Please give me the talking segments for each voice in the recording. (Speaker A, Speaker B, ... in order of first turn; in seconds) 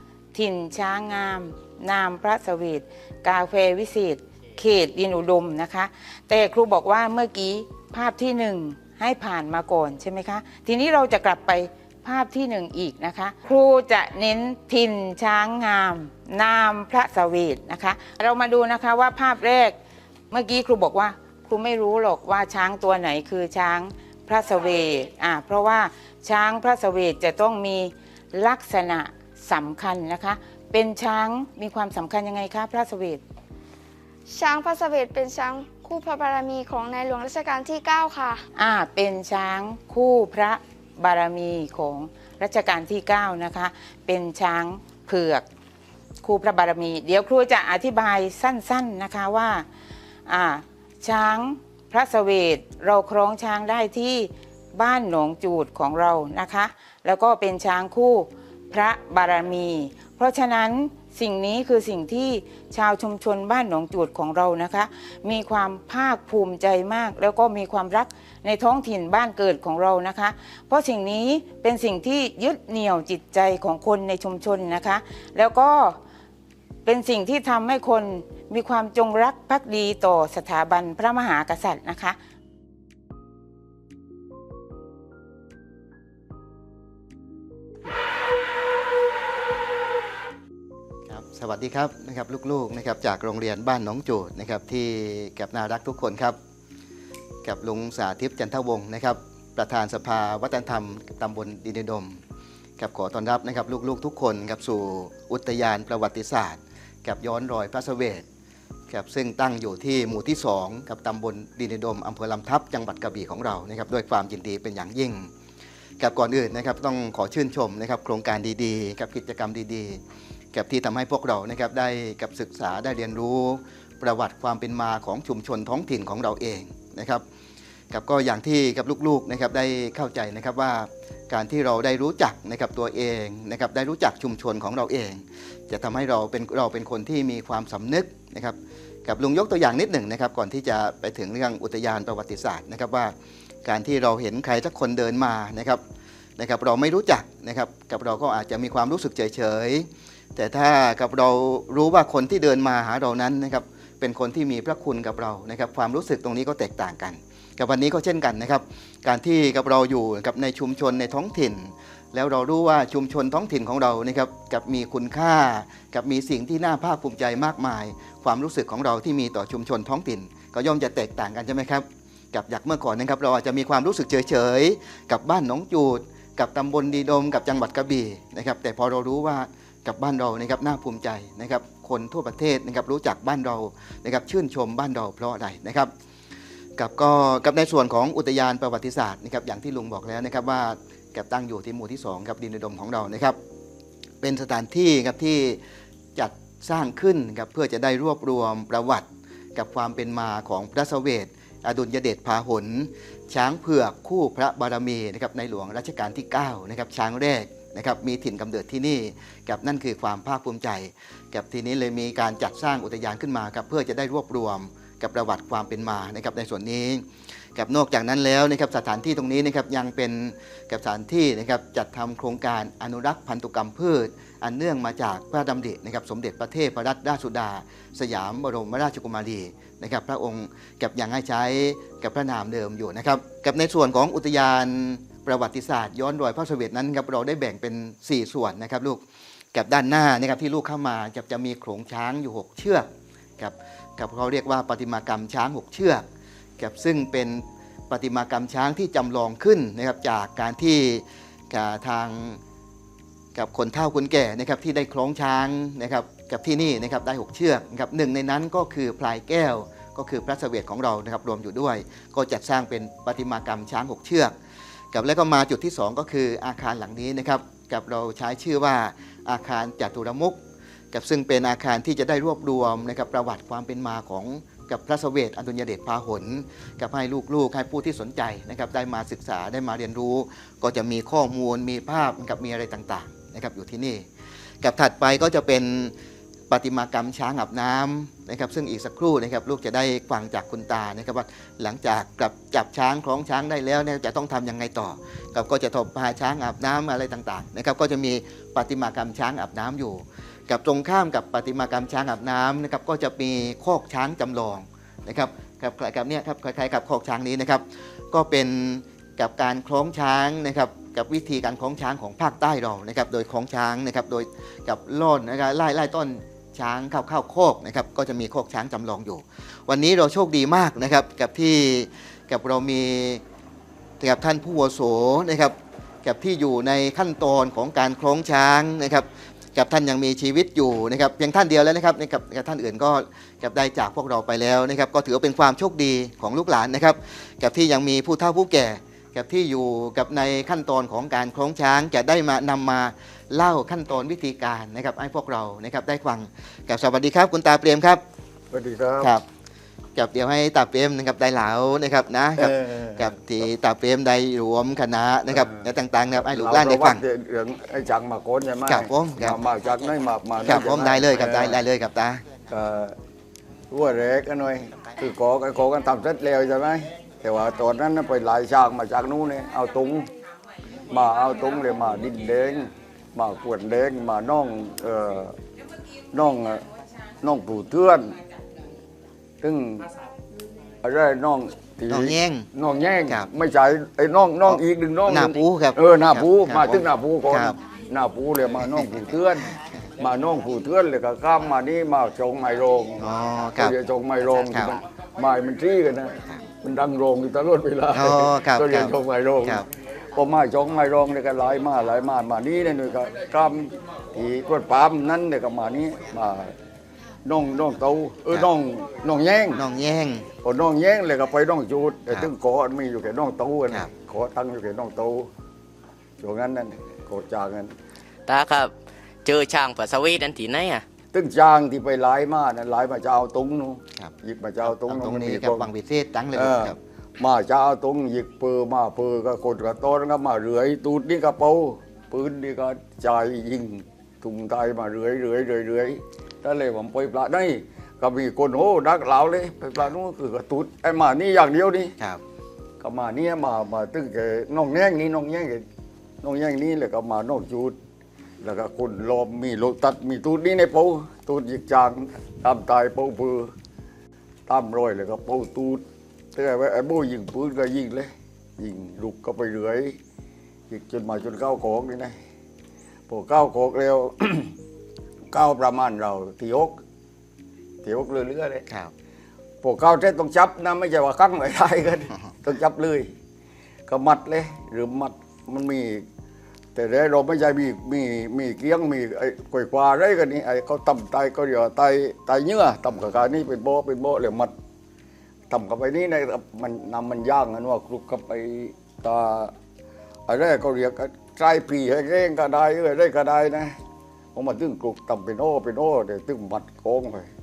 Speaker A: 0.3-19.8, 20.3-33.2, 38.6-45.5, 46.2-49.6, 50.3-76.0, 76.9-82.2
Speaker B: 34.3-38.4
Speaker C: 91.1-96.4, 97.4-102.2, 102.8-108.2, 108.9-115.3, 116.0-120.0, 120.5-127.2, 127.9-143.1, 143.7-145.8, 146.4-185.9, 186.8-193.4, 194.2-195.6, 196.2-217.0, 217.6-239.0, 239.5-246.1, 246.6-252.4, 253.3-264.4, 264.9-284.1, 284.6-285.9, 286.5-323.2, 324.0-348.0, 349.0-349.2, 349.9-357.0, 358.7-359.4, 360.4-362.2, 381.9-382.5, 384.5-387.6, 393.0-394.8, 397.9-399.6, 409.5-410.3, 424.7-426.8
Speaker D: 348.5-349.1, 352.4-353.1, 355.4-355.6, 356.2-361.6, 362.5-363.0, 363.7-370.1, 370.9-375.4, 376.1-376.6, 377.2-378.2, 379.4-379.9, 380.8-393.0, 393.6-399.6, 400.1-406.5, 407.2-409.6, 410.4-415.3, 416.2-417.7, 421.1-425.7, 426.3-441.9, 442.8-445.6, 446.2-447.8, 448.4-453.5, 454.5-455.8, 456.4-460.0, 460.7-462.1, 463.1-464.5, 465.3-466.8, 467.8-468.6, 469.6-473.1, 473.9-476.0, 476.8-484.5, 485.5-489.5, 490.3-493.8, 494.4-497.3
Speaker E: 418.3-418.7, 419.2-420.8